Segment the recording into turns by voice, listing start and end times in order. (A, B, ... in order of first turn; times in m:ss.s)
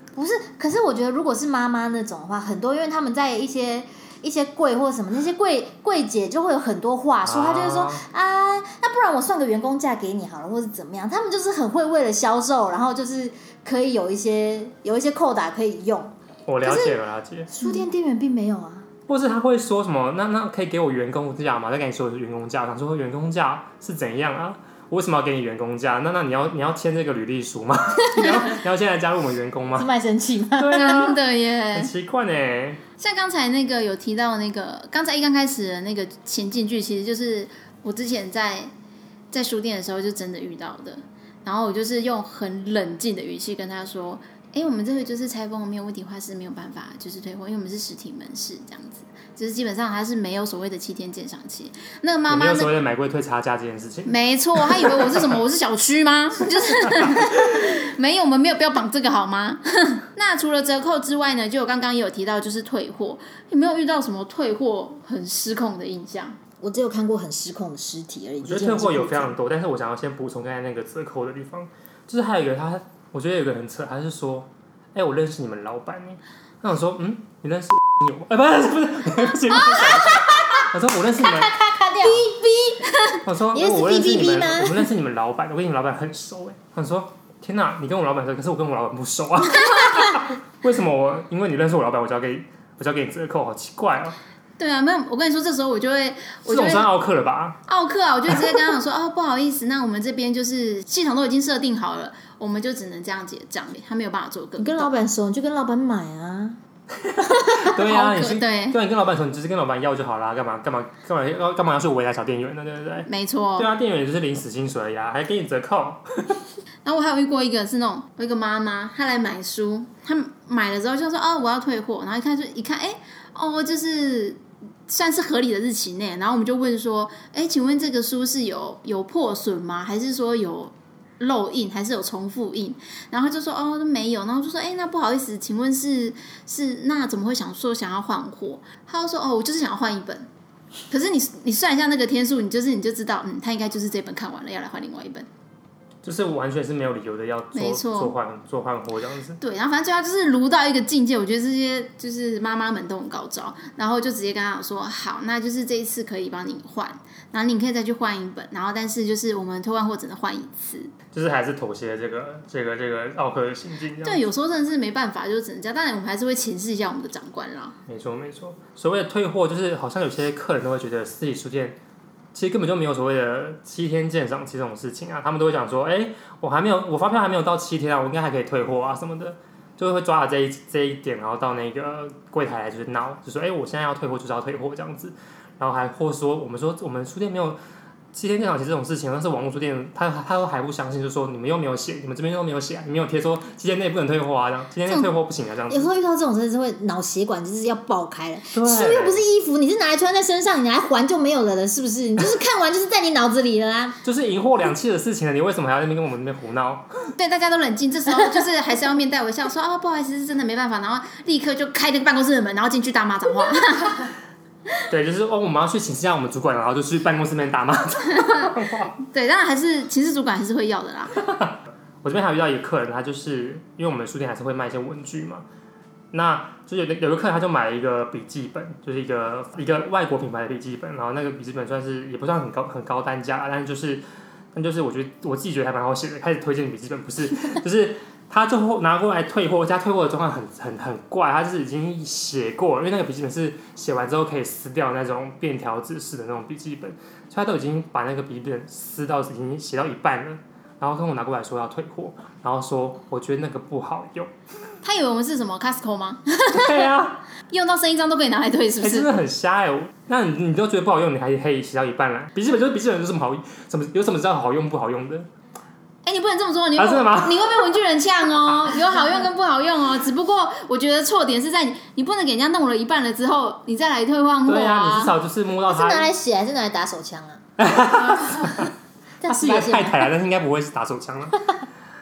0:00.1-0:17.0 A
0:07.2-0:08.0 B
0:16.5-0:17.5 B
0:17.5-0:18.9 A
0:19.1-0:29.9 B
0:29.8-0:31.0 A
0:30.6-0:32.8 B
0:30.7-0:31.9 C
0:33.0-0:38.7 C
0:39.3-0:52.7 C
0:52.3-0:55.1 B
0:54.0-1:06.4 C
0:57.0-0:57.7 B
1:06.6-1:09.4 A
1:08.4-1:21.6 B
1:21.2-1:22.9 A
1:23.0-1:23.2 C
1:23.2-1:34.2 B
1:23.5-1:24.9 A
1:34.6-1:36.9 C
1:36.5-1:37.6 B
1:37.7-1:44.9 C
1:44.6-1:46.6 A
1:47.0-1:56.4 B
1:47.6-1:48.8 C
1:53.0-1:53.7 C
1:56.8-2:20.3 C
2:20.9-2:25.3 C
2:26.0-2:29.4 B
2:27.5-2:28.1 C
2:29.4-2:40.9 C
2:41.1-2:44.2 B
2:44.0-2:47.8 C
2:47.9-2:51.8 B
2:52.3-3:07.6 B
3:08.1-3:15.9 B
3:15.7-3:24.0 A
3:18.5-3:19.2 B
3:24.0-3:26.9 B
3:27.1-3:34.1 C
3:34.9-3:38.9 B
3:38.2-3:38.5 C
3:39.0-3:41.2 C
3:41.4-3:45.4 B
3:46.1-4:14.3 B
4:14.8-4:16.8 C
4:16.5-4:17.2 B
4:17.5-4:19.1 C
4:18.8-4:25.3 B
4:26.0-4:35.1 C
4:26.8-4:27.6 B
4:34.4-4:36.1 B
4:35.7-4:37.4 A
4:37.6-4:38.7 B
4:39.2-4:40.1 A
4:39.2-4:41.4 B